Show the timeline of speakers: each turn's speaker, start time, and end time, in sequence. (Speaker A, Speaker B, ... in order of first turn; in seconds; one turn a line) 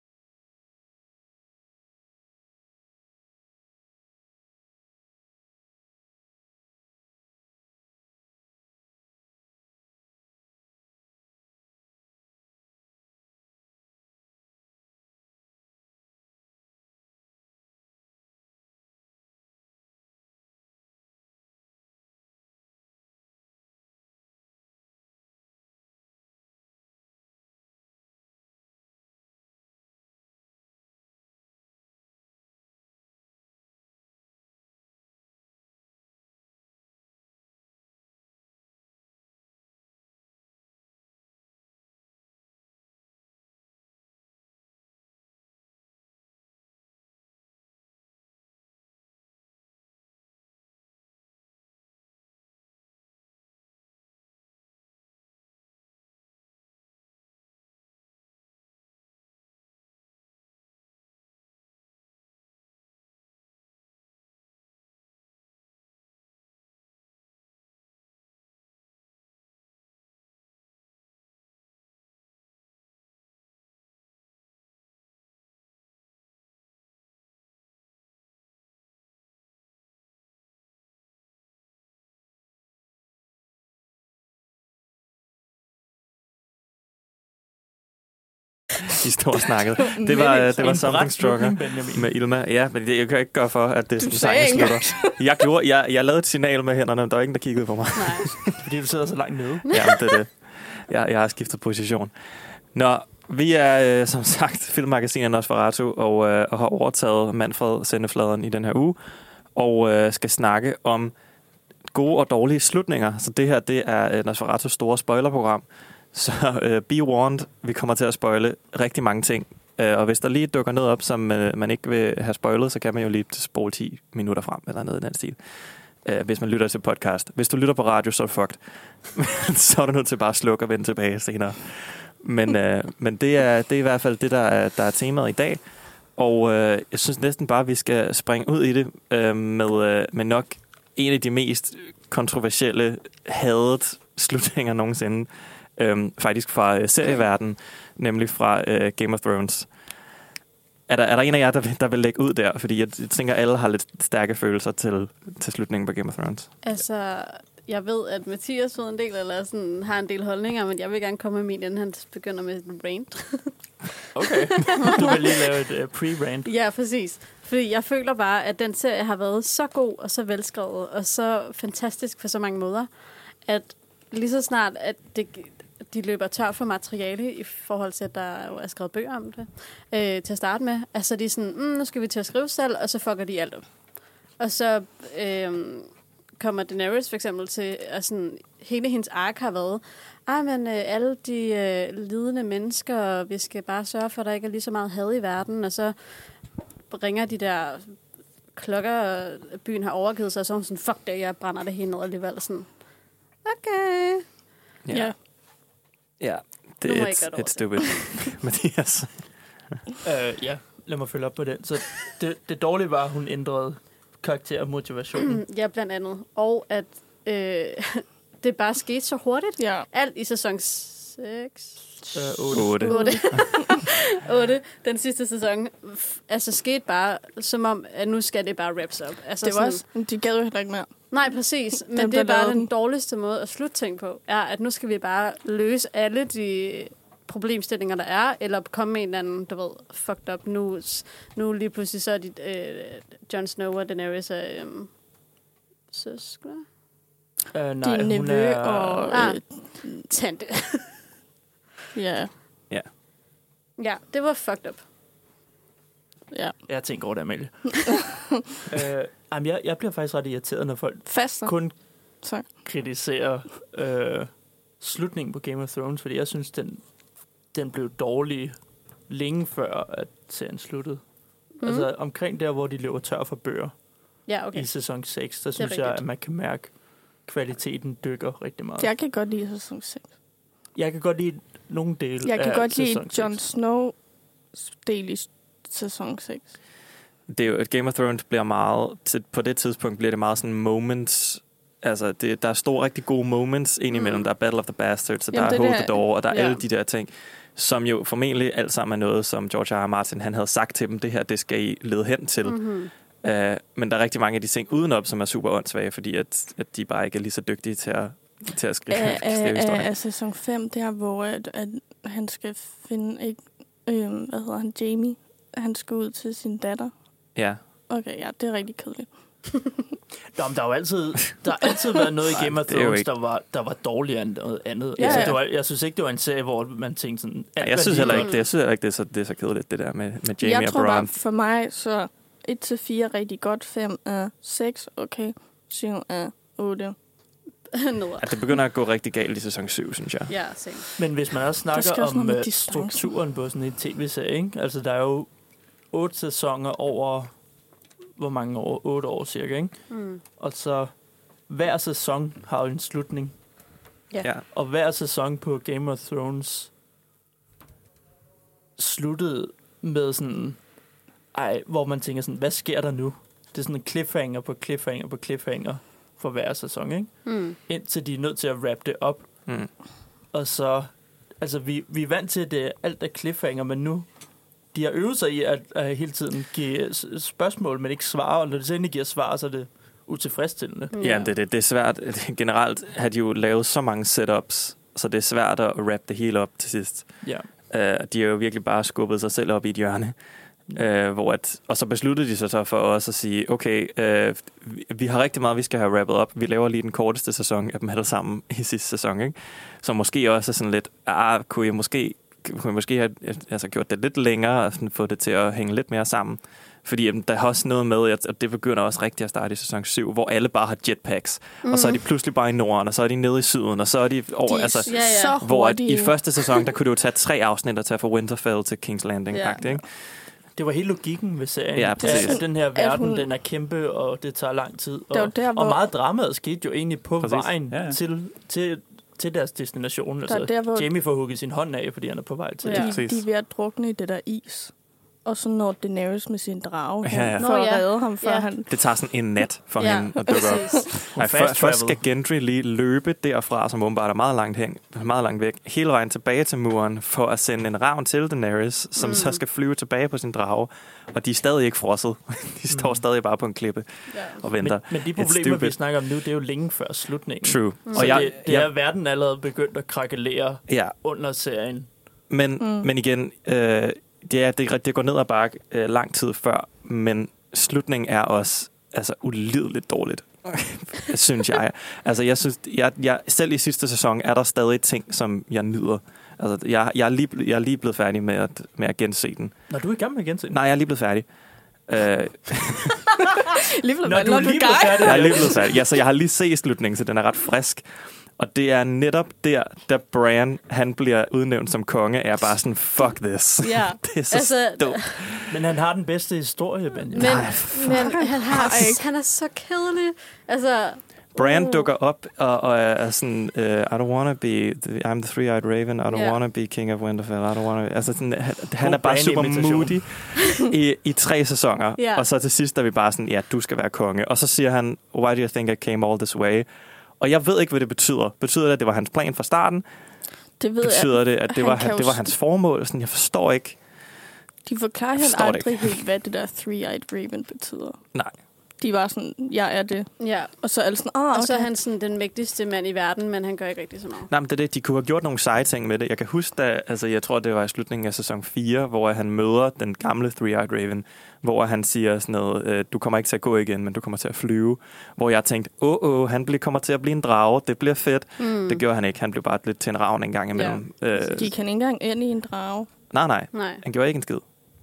Speaker A: 88.9-98.6
Speaker B: 90.0-92.1
Speaker C: 94.0-95.2
Speaker D: 98.0-98.3
Speaker B: 98.6-99.7
Speaker A: 99.7-102.1
Speaker A: 102.7-109.0
Speaker A: 109.5-111.1
Speaker A: 111.9-125.4
Speaker A: 126.0-128.6
Speaker A: 129.1-135.6
Speaker A: 136.2-149.7
Speaker A: 150.9-156.5
Speaker D: 156.6-163.5
Speaker B: 164.1-166.5
Speaker D: 164.2-165.4
Speaker D: 166.4-172.9
Speaker D: 173.4-183.6
Speaker D: 184.4-195.9
Speaker D: 196.9-197.9
Speaker D: 198.5-202.7
Speaker D: 203.4-204.2
Speaker A: 204.8-205.1
Speaker A: 206.2-209.1
Speaker D: 206.8-208.3
Speaker B: 210.0-215.4
Speaker D: 215.3-229.8
Speaker C: 219.6-219.9
Speaker B: 222.1-222.9
Speaker A: 222.5-223.4
Speaker C: 222.8-223.8
Speaker C: 229.4-230.9
Speaker D: 231.1-244.9
Speaker C: 231.9-232.7
Speaker D: 245.9-246.6
Speaker B: 247.5-249.2
Speaker C: 247.8-250.1
Speaker D: 249.1-251.0
Speaker C: 251.9-252.3
Speaker D: 253.8-254.8
Speaker B: 256.7-258.0
Speaker C: 257.9-258.4
Speaker B: 258.7-261.7
Speaker C: 261.1-261.6
Speaker C: 262.2-262.5
Speaker B: 262.6-266.8
Speaker B: 267.5-268.5
Speaker B: 269.1-271.0
Speaker D: 271.6-271.9
Speaker B: 271.6-273.7
Speaker D: 274.3-274.7
Speaker B: 274.5-276.7
Speaker D: 275.6-276.0
Speaker B: 277.2-278.9
Speaker C: 278.8-280.1
Speaker B: 280.7-283.4
Speaker C: 282.2-283.9
Speaker C: 284.5-286.5
Speaker A: 287.3-302.6
Speaker D: 293.9-294.2
Speaker C: 295.3-296.0
Speaker D: 296.3-296.6
Speaker D: 302.4-302.9
Speaker A: 303.2-309.9
Speaker C: 308.9-316.9
Speaker C: 317.9-319.1
Speaker B: 320.3-328.3
Speaker A: 322.3-323.1
Speaker C: 325.0-325.4
Speaker A: 325.0-325.3
Speaker A: 327.6-331.1
Speaker D: 328.0-328.3
Speaker C: 330.4-336.9
Speaker D: 337.7-338.3
Speaker A: 338.2-340.3
Speaker D: 340.3-340.9
Speaker B: 341.0-345.3
Speaker C: 341.7-343.1
Speaker B: 345.9-347.3
Speaker B: 348.2-349.8
Speaker D: 349.9-350.2
Speaker B: 350.4-350.9
Speaker B: 351.5-353.3
Speaker B: 354.5-356.7
Speaker B: 358.8-360.6
Speaker B: 361.3-369.3
Speaker D: 367.2-367.6
Speaker B: 370.3-374.1
Speaker B: 374.7-380.9
Speaker D: 380.9-381.3
Speaker A: 381.0-387.1
Speaker A: 387.7-390.1
Speaker A: 390.7-419.8
Speaker D: 411.6-412.0
Speaker C: 414.5-416.2
Speaker D: 414.9-415.4
Speaker B: 420.6-432.9
Speaker A: 421.7-422.4
Speaker C: 422.0-423.3
Speaker C: 425.1-425.8
Speaker A: 427.2-428.0
Speaker C: 430.3-430.9
Speaker D: 432.6-432.9
Speaker C: 432.7-434.7
Speaker A: 432.8-433.2
Speaker C: 435.2-438.7
Speaker A: 437.0-437.5
Speaker D: 437.4-438.5
Speaker A: 438.7-455.8
Speaker D: 439.8-440.9
Speaker C: 440.4-440.8
Speaker B: 441.1-442.0
Speaker D: 449.0-449.4
Speaker B: 452.7-453.0
Speaker D: 454.1-454.4
Speaker B: 454.6-461.9
Speaker A: 457.4-458.7
Speaker D: 457.9-458.2
Speaker A: 460.7-460.9
Speaker A: 462.3-479.5
Speaker C: 462.6-462.9
Speaker B: 479.7-480.6
Speaker A: 480.5-481.2
Speaker A: 481.9-483.1
Speaker C: 483.4-485.6
Speaker B: 484.0-485.7
Speaker A: 485.0-487.8
Speaker A: 488.4-495.6
Speaker D: 493.6-495.2
Speaker B: 495.5-497.5
Speaker D: 497.1-501.9
Speaker A: 497.1-498.3
Speaker C: 497.8-499.0
Speaker A: 501.3-516.7
Speaker D: 506.1-506.4
Speaker B: 508.8-510.0
Speaker D: 512.0-512.2
Speaker A: 517.2-519.8
Speaker C: 520.6-522.3
Speaker A: 520.8-523.8
Speaker C: 524.6-528.0
Speaker A: 525.2-526.0
Speaker C: 528.8-531.7
Speaker D: 530.2-530.5
Speaker D: 531.3-534.3
Speaker A: 534.3-551.5
Speaker D: 548.4-548.8
Speaker D: 550.5-550.8
Speaker C: 551.2-552.9
Speaker A: 553.1-554.4
Speaker D: 553.5-553.8